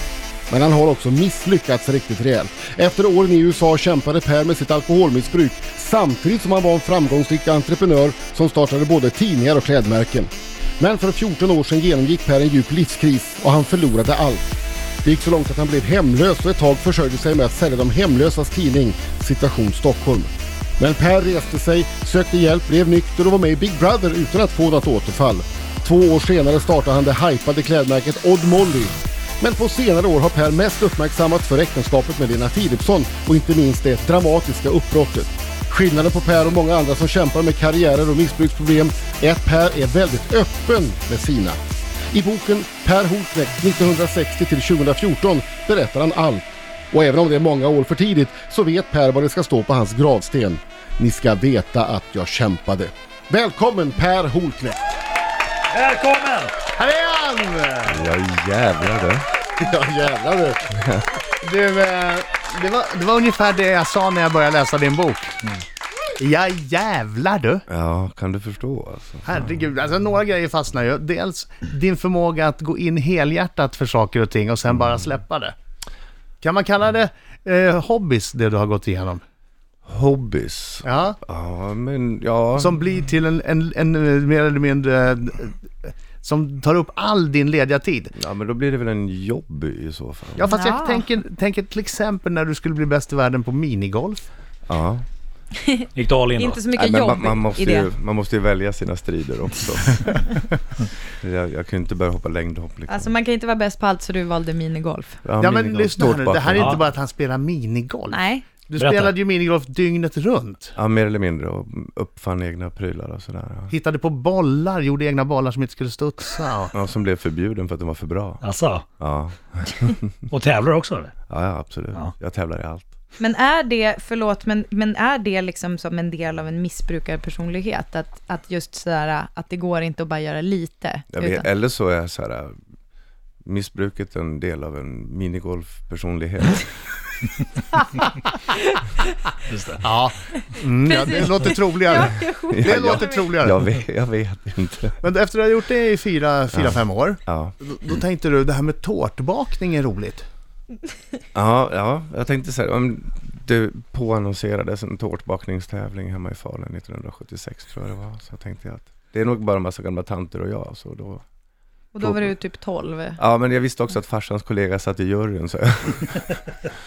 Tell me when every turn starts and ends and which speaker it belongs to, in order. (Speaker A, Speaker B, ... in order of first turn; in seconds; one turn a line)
Speaker A: 0.5-14.4
Speaker A: 15.0-41.6
Speaker A: 42.1-54.9
Speaker B: 55.7-56.5
Speaker C: 56.8-58.0
Speaker D: 57.9-59.2
Speaker A: 59.6-60.6
Speaker D: 60.7-61.1
Speaker C: 61.4-65.4
Speaker C: 66.2-67.6
Speaker D: 67.7-69.2
Speaker C: 69.2-75.5
Speaker C: 76.4-79.2
Speaker D: 79.8-82.7
Speaker C: 80.8-81.2
Speaker C: 82.6-88.1
Speaker D: 88.1-90.5
Speaker C: 90.4-94.2
Speaker E: 90.5-91.0
Speaker D: 94.7-95.0
Speaker E: 95.6-97.9
Speaker B: 95.9-96.6
Speaker D: 96.8-100.1
Speaker D: 101.2-103.1
Speaker E: 102.9-105.2
Speaker D: 105.2-106.8
Speaker C: 105.4-110.7
Speaker E: 108.1-108.5
Speaker B: 108.8-109.1
Speaker D: 110.8-113.7
Speaker C: 113.7-116.7
Speaker D: 116.7-118.4
Speaker B: 118.4-118.8
Speaker D: 119.0-120.1
Speaker B: 120.3-121.1
Speaker D: 121.3-122.9
Speaker E: 123.2-131.4
Speaker D: 131.1-132.6
Speaker D: 133.4-136.7
Speaker E: 138.5-139.0
Speaker B: 139.5-139.8
Speaker C: 139.8-143.6
Speaker E: 140.4-143.4
Speaker D: 142.5-145.0
Speaker C: 145.0-150.2
Speaker D: 146.5-147.5
Speaker D: 151.3-161.2
Speaker E: 161.9-163.2
Speaker D: 162.0-162.3
Speaker D: 163.2-166.6